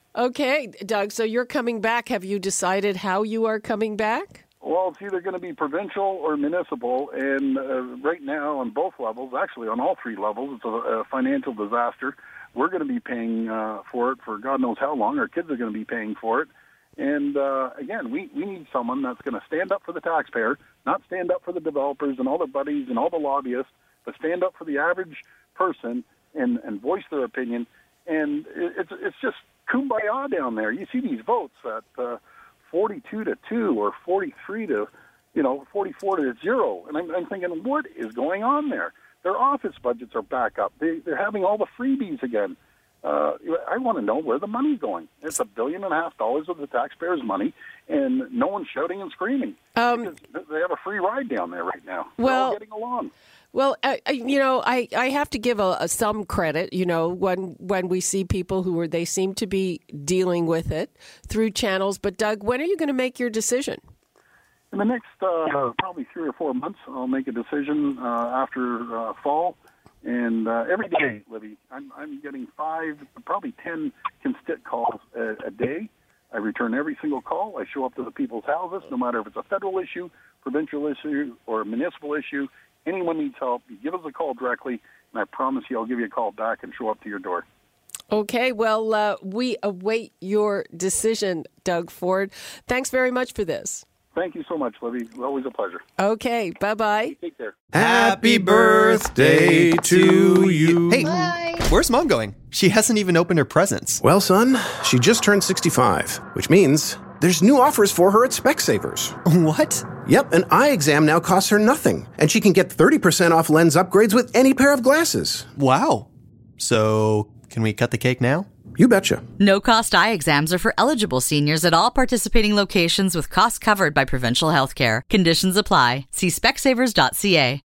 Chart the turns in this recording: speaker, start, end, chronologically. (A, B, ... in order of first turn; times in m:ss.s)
0:00.2-0:04.4 A
0:04.6-0:53.1 B
0:49.8-0:50.1 A
0:52.2-0:52.6 A
0:53.5-1:03.8 A
1:04.7-1:27.5 B
1:28.1-1:33.8 A
1:34.1-1:35.8 B
1:36.0-1:37.2 A
1:37.2-1:37.6 B
1:37.7-1:44.0 C
1:37.8-1:40.8 D
1:44.0-1:49.2 D
1:49.2-1:50.0 C
1:50.0-1:55.5 D
1:55.6-1:58.5 C
1:58.8-1:59.2 D
1:59.4-2:07.6 E